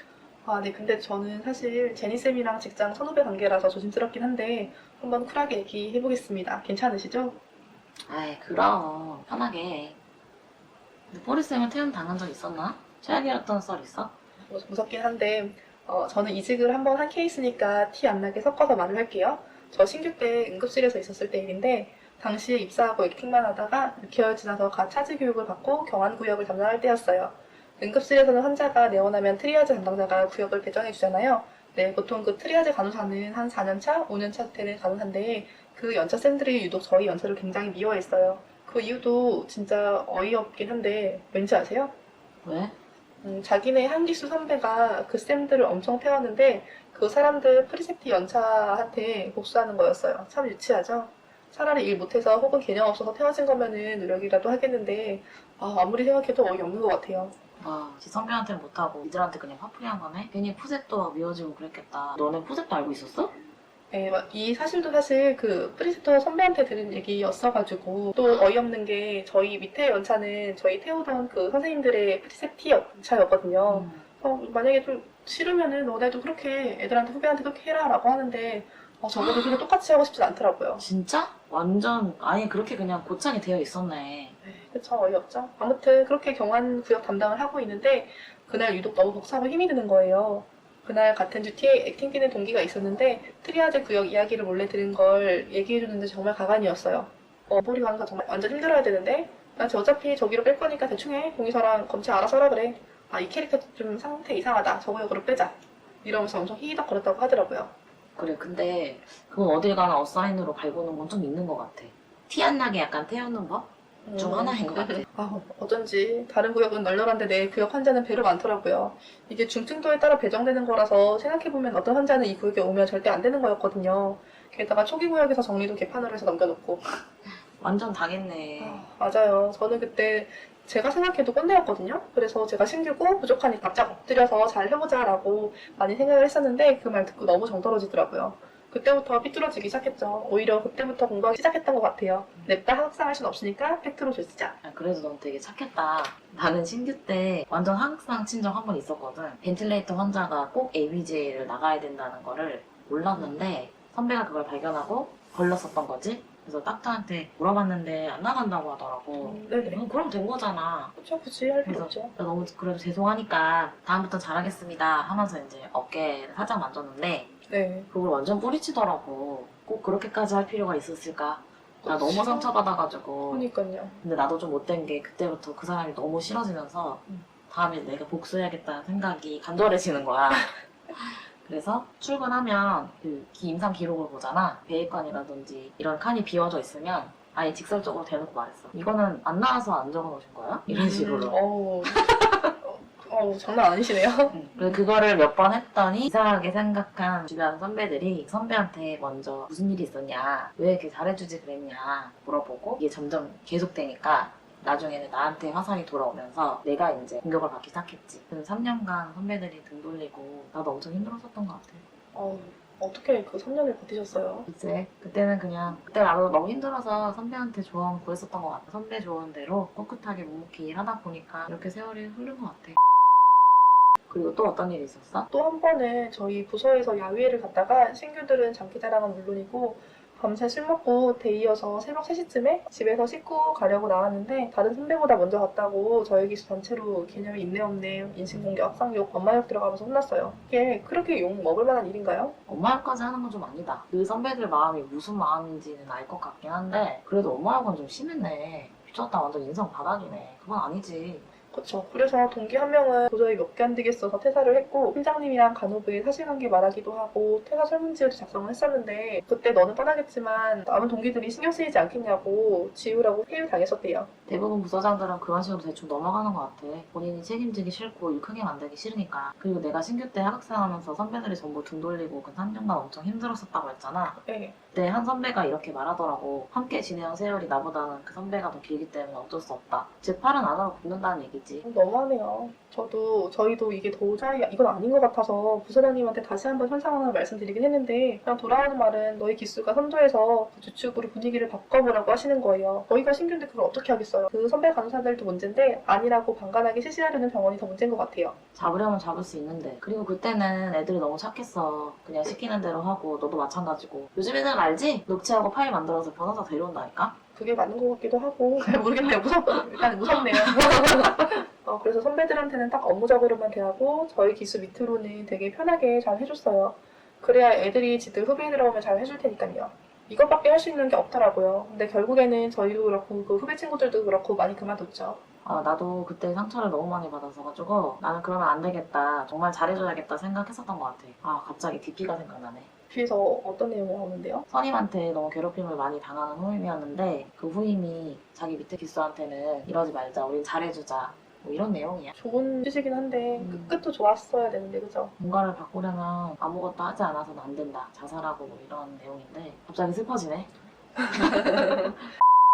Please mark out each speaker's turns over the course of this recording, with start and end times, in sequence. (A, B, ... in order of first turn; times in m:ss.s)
0:00.4-0:07.4 A
0:08.1-0:10.0 B
0:11.1-0:14.1 B
0:14.5-0:41.9 A
0:42.4-0:42.7 B
0:43.2-0:57.3 A
0:57.6-1:03.3 B
1:03.9-1:20.8 A
1:13.7-1:14.0 B
1:20.8-1:24.4 B
1:24.4-1:47.7 A
1:48.2-1:55.0 B
1:54.0-2:06.8 A
2:07.6-2:08.8 B
2:08.6-2:24.6 A
2:24.6-2:40.9 B
2:33.1-2:33.4 A
2:39.2-2:39.8 A
2:41.0-2:42.1 A
2:41.6-2:47.3 B
2:47.5-2:47.9 A
2:47.9-2:53.5 B
2:51.8-2:52.5 A
2:53.3-2:54.0 A
2:54.0-3:11.4 B
3:10.7-3:14.4 A
3:14.3-3:31.8 B
3:32.1-3:34.5 A
3:34.5-3:42.8 B
3:44.1-3:45.3 B
3:45.3-4:02.4 A
4:02.5-4:11.3 B
4:11.5-4:24.1 A
4:24.3-4:34.2 B
4:34.2-4:34.6 A
4:34.7-4:41.6 B
4:41.6-4:58.4 A
4:58.5-5:07.2 B
5:07.4-5:25.2 A
5:10.3-5:11.3 B
5:25.4-5:32.7 B
5:32.9-5:34.4 A
5:34.5-5:42.1 B
5:42.2-5:45.1 A
5:43.4-5:43.8 B
5:45.2-5:50.5 B
5:51.0-5:51.9 A
5:51.1-5:51.8 B